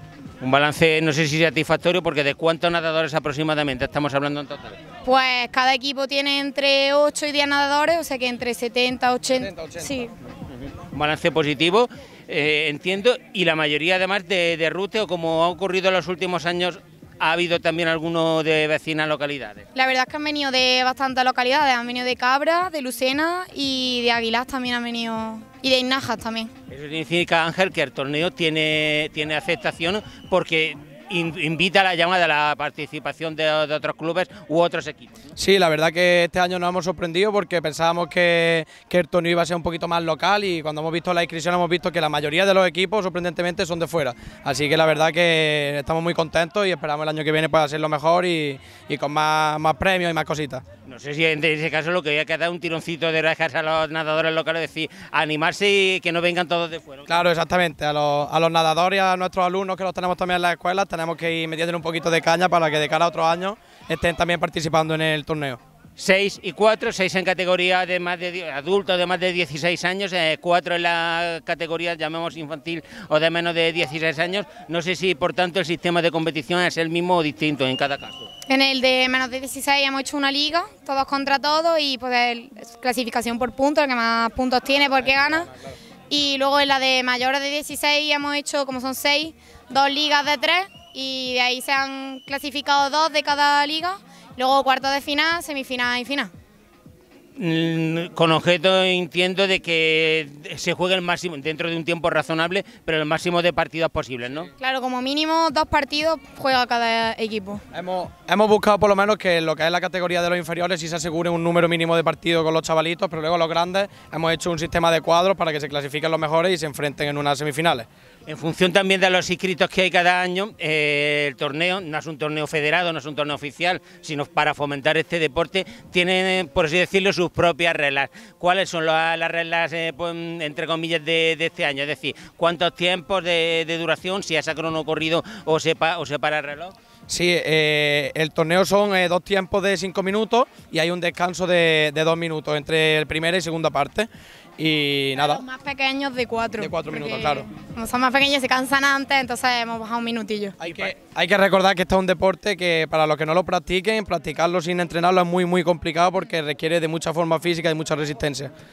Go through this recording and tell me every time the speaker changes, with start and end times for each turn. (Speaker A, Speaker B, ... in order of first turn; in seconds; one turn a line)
Speaker A: 0.4-4.8
Speaker B: 5.0-10.1
Speaker C: 9.4-10.1
Speaker A: 10.8-19.6
Speaker B: 19.7-26.5
Speaker A: 26.7-35.2
Speaker C: 35.4-50.6
Speaker A: 50.9-57.3
Speaker C: 57.1-65.6
Speaker A: 66.0-78.3
Speaker B: 78.5-85.5
Speaker C: 85.1-85.6
Speaker B: 86.1-96.3
Speaker A: 97.4-104.5
Speaker B: 104.6-107.6
Speaker C: 107.7-117.9
Speaker A: 118.3-136.7
Speaker C: 137.1-145.4
Speaker B: 145.2-150.6
Speaker C: 146.6-147.5
Speaker C: 150.6-158.5
Speaker A: 150.6-150.9